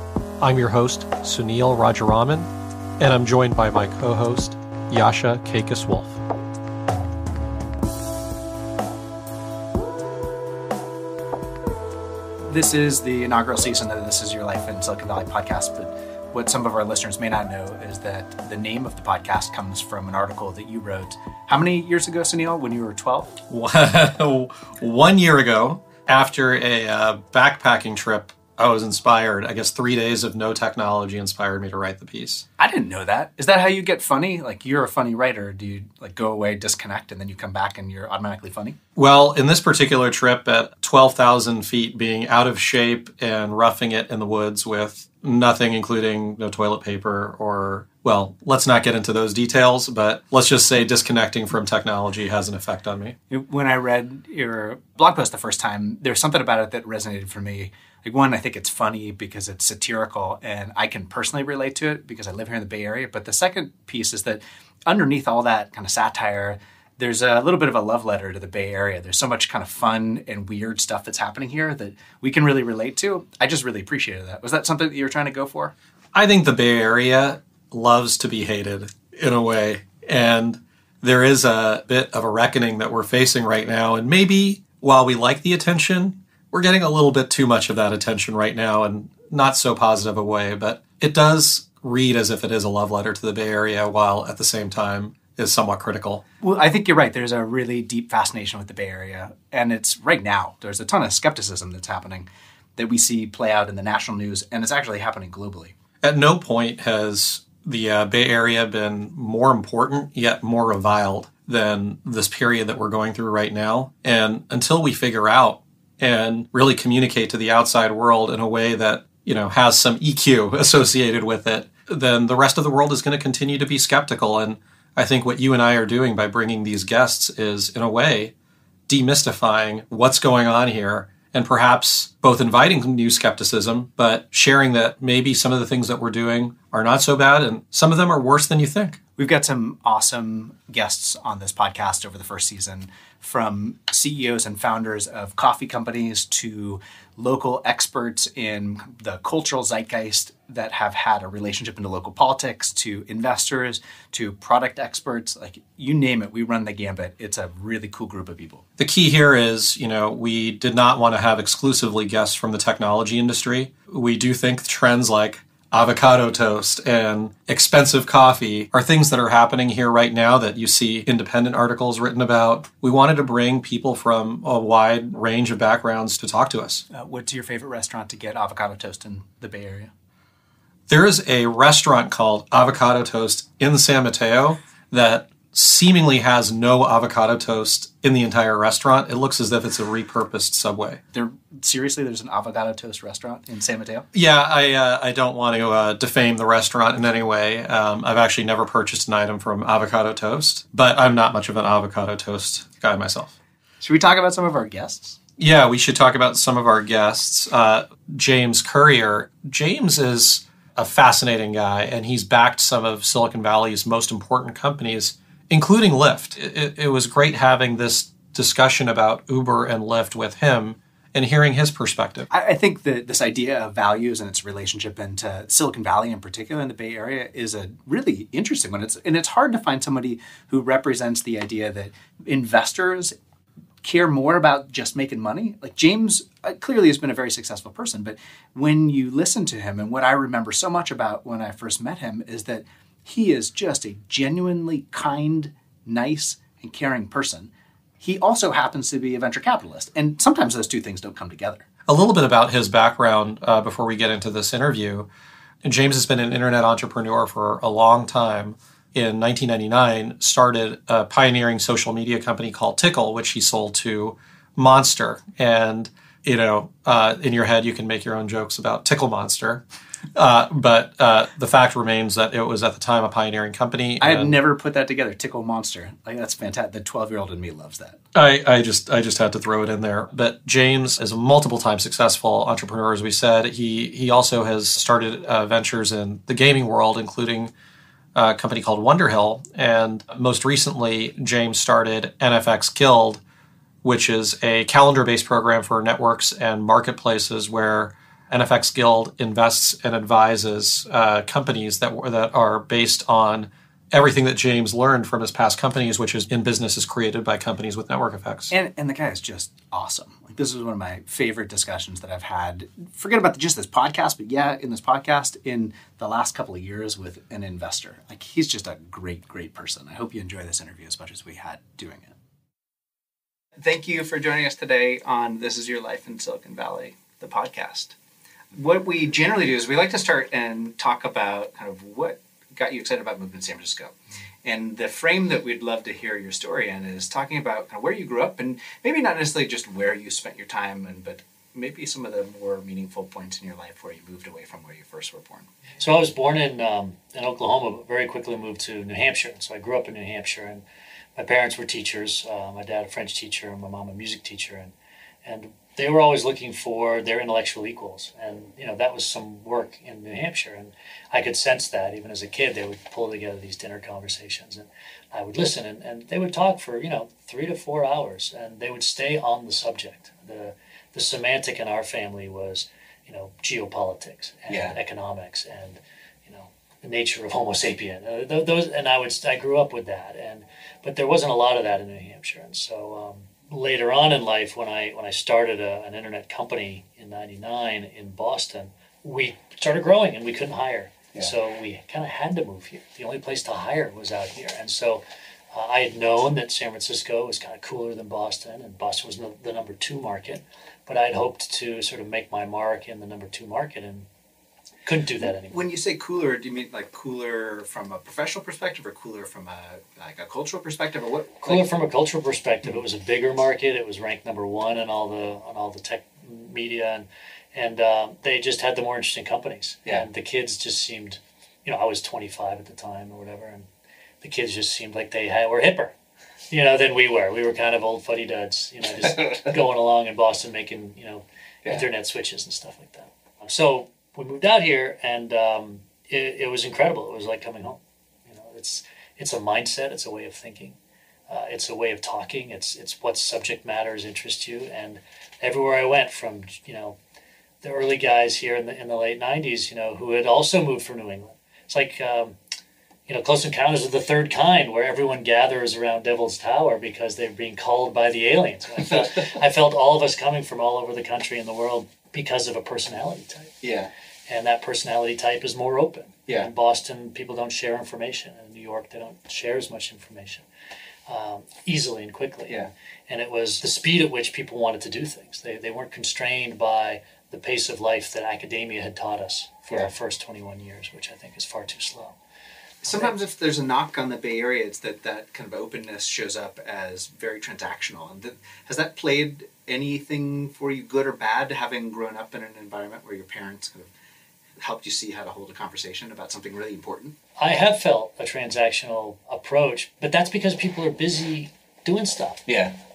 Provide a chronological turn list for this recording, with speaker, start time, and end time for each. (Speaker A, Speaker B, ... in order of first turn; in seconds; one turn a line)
Speaker A: 0.4-6.2
Speaker B: 12.5-23.4
Speaker A: 23.5-32.5
Speaker B: 32.6-38.8
Speaker A: 39.0-53.1
Speaker B: 53.3-75.7
Speaker A: 76.1-96.2
Speaker B: 96.4-105.8
Speaker A: 106.0-128.3
Speaker A: 128.9-139.0
Speaker B: 139.2-158.6
Speaker A: 158.8-176.8
Speaker B: 176.9-179.9
Speaker A: 180.9-191.0
Speaker B: 191.1-194.1
Speaker A: 194.1-203.3
Speaker B: 203.8-205.2
Speaker A: 205.4-222.3
Speaker B: 222.3-233.1
Speaker B: 233.8-251.7
Speaker A: 251.9-255.1
Speaker A: 255.6-269.6
Speaker A: 270.2-274.3
Speaker B: 274.0-278.0
Speaker A: 278.1-287.5
Speaker A: 288.1-293.2
Speaker A: 293.8-308.5
Speaker B: 308.5-322.1
Speaker B: 323.6-327.9
Speaker B: 328.5-345.5
Speaker C: 345.8-350.6
Speaker C: 351.2-404.1
Speaker B: 374.5-374.8
Speaker C: 404.9-405.6
Speaker B: 405.2-411.7
Speaker C: 411.4-423.7
Speaker C: 424.2-425.9
Speaker C: 426.5-440.8
Speaker B: 429.1-429.5
Speaker C: 441.3-447.0
Speaker C: 447.6-452.4
Speaker C: 453.1-463.6
Speaker B: 463.6-463.9
Speaker C: 464.3-470.4
Speaker C: 471.1-482.2
Speaker B: 482.8-493.9
Speaker C: 482.9-483.2
Speaker B: 494.6-497.1
Speaker C: 497.4-502.5
Speaker B: 502.5-502.7